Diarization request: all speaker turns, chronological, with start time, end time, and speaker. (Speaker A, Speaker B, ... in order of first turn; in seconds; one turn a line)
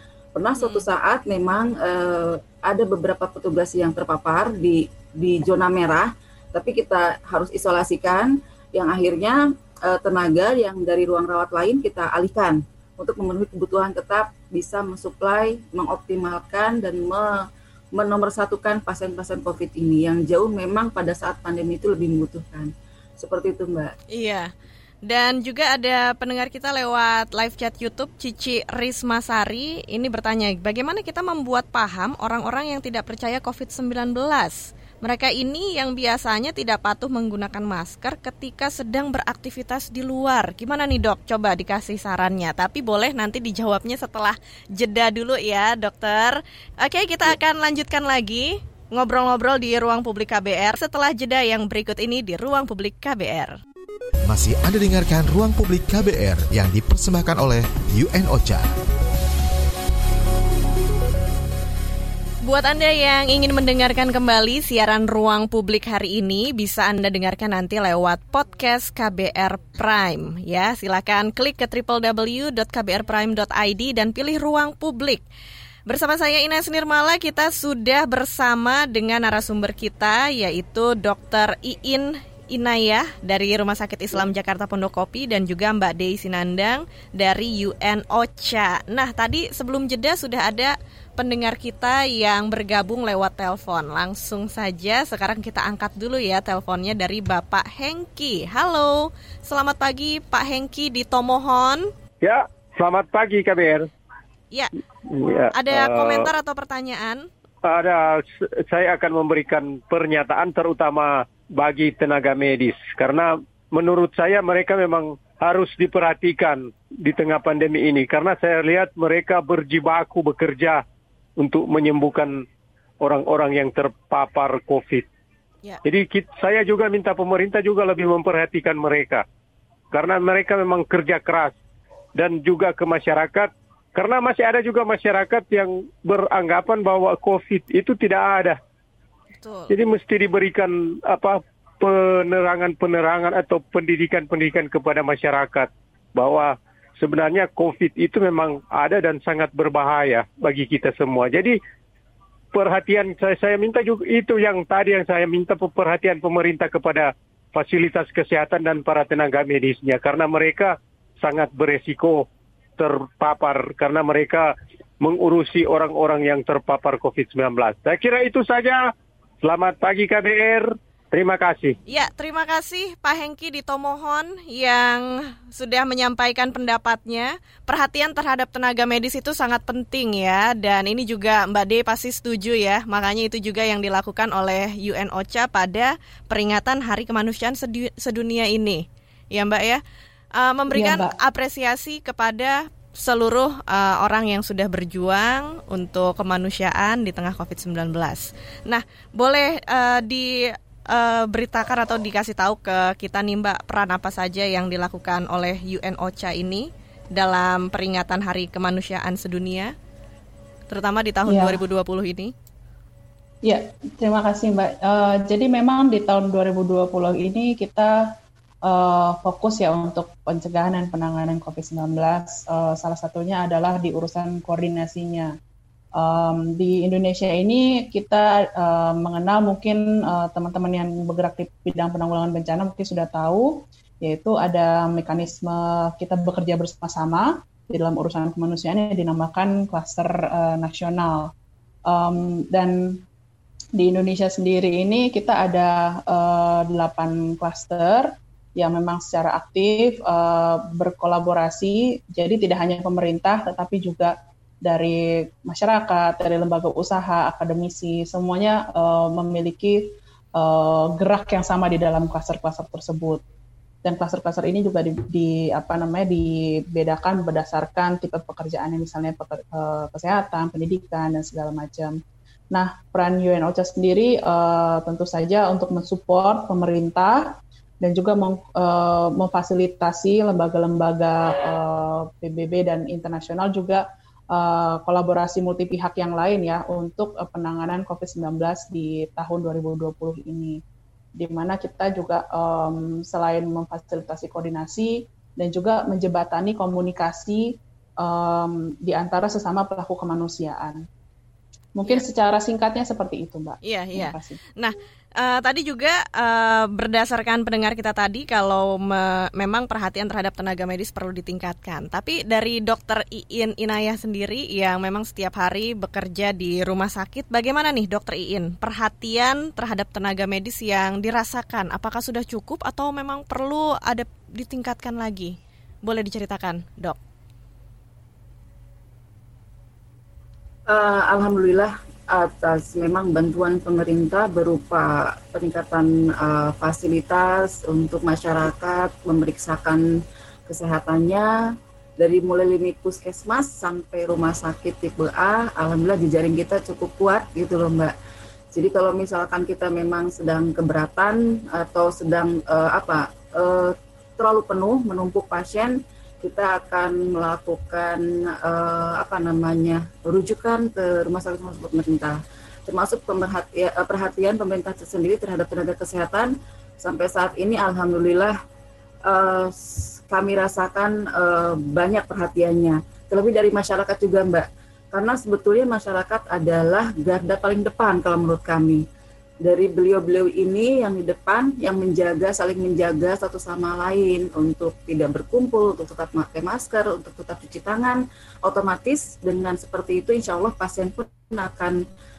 Speaker A: 0.3-17.4
Speaker B: 0.6-0.9
Speaker A: 17.9-24.0
Speaker B: 24.1-24.5
Speaker B: 25.1-53.6
Speaker C: 54.3-58.7
Speaker B: 62.4-75.2
Speaker B: 75.9-101.9
Speaker D: 102.2-103.9
Speaker D: 105.1-106.3
Speaker B: 105.5-107.3
Speaker D: 107.7-120.8
Speaker D: 121.4-122.4
Speaker D: 123.0-125.0
Speaker D: 125.8-129.2
Speaker D: 129.9-131.5
Speaker D: 132.2-138.6
Speaker B: 139.4-139.7
Speaker D: 139.7-151.6
Speaker D: 152.5-162.2
Speaker D: 162.8-164.5
Speaker D: 165.0-168.9
Speaker D: 169.4-171.8
Speaker B: 171.9-189.8
Speaker B: 190.4-209.7
Speaker E: 190.7-191.2
Speaker B: 210.7-212.3
Speaker E: 211.3-211.6
Speaker E: 213.4-217.9
Speaker E: 218.7-225.3
Speaker E: 226.0-241.3
Speaker E: 241.9-243.0
Speaker E: 243.8-254.1
Speaker E: 254.7-263.2
Speaker E: 263.8-272.0
Speaker E: 272.5-290.6
Speaker E: 291.2-300.9
Speaker E: 301.8-304.4
Speaker B: 303.6-327.0
Speaker A: 330.7-339.9
Speaker A: 340.5-341.3
Speaker A: 342.0-347.9
Speaker A: 348.5-368.4
Speaker A: 369.1-378.8
Speaker A: 379.4-391.8